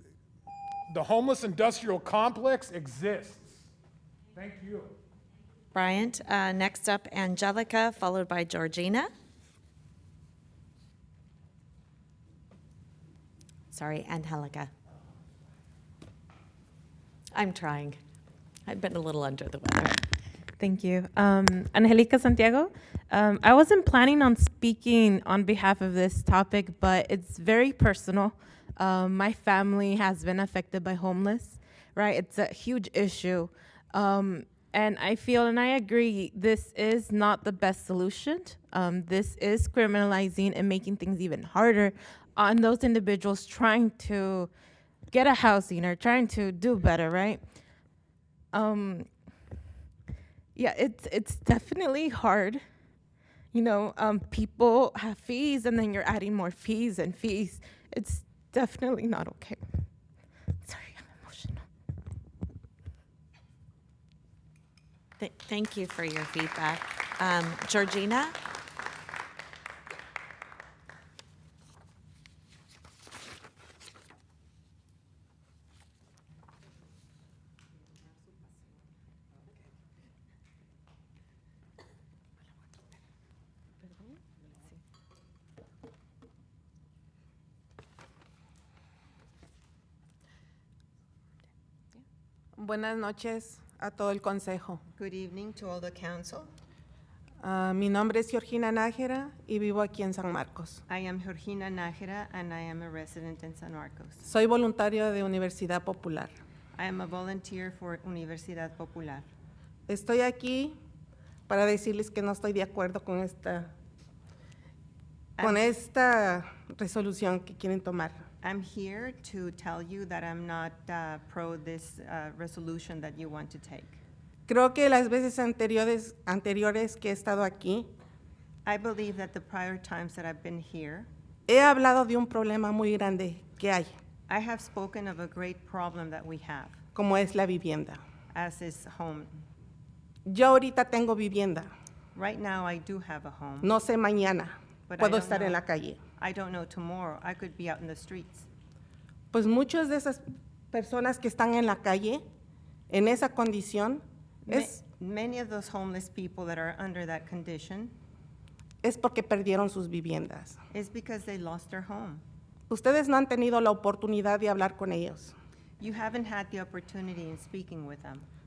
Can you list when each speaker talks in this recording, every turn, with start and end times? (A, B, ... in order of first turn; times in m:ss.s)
0:00.9-0:03.6 A
0:04.3-0:04.9 A
0:05.7-0:09.1 B
0:13.7-0:14.7 B
0:17.3-0:18.0 B
0:18.6-0:20.0 B
0:20.6-0:44.5 C
0:45.1-0:47.4 C
0:48.5-0:49.1 C
0:50.5-0:52.6 C
0:53.5-0:59.6 C
1:00.6-1:01.6 C
1:05.2-1:08.3 B
1:32.6-1:34.8 D
1:35.0-1:36.5 E
1:37.4-1:40.8 D
1:40.9-1:44.3 E
1:44.2-1:46.3 D
1:46.7-1:49.3 E
1:49.9-1:50.8 D
1:51.5-1:53.7 D
1:55.4-1:55.7 E
1:55.4-1:58.2 D
1:58.4-2:04.0 E
2:04.5-2:07.9 D
2:08.6-2:11.1 E
2:11.5-2:13.9 D
2:14.3-2:16.8 E
2:16.9-2:18.0 D
2:18.3-2:19.5 E
2:20.2-2:21.7 D
2:22.1-2:23.7 E
2:23.6-2:26.0 D
2:24.9-2:25.6 E
2:26.2-2:28.5 E
2:29.3-2:32.2 D
2:32.9-2:34.8 D
2:34.4-2:37.9 E
2:38.8-2:40.6 D
2:40.7-2:42.2 E
2:42.7-2:45.3 D
2:45.8-2:48.3 E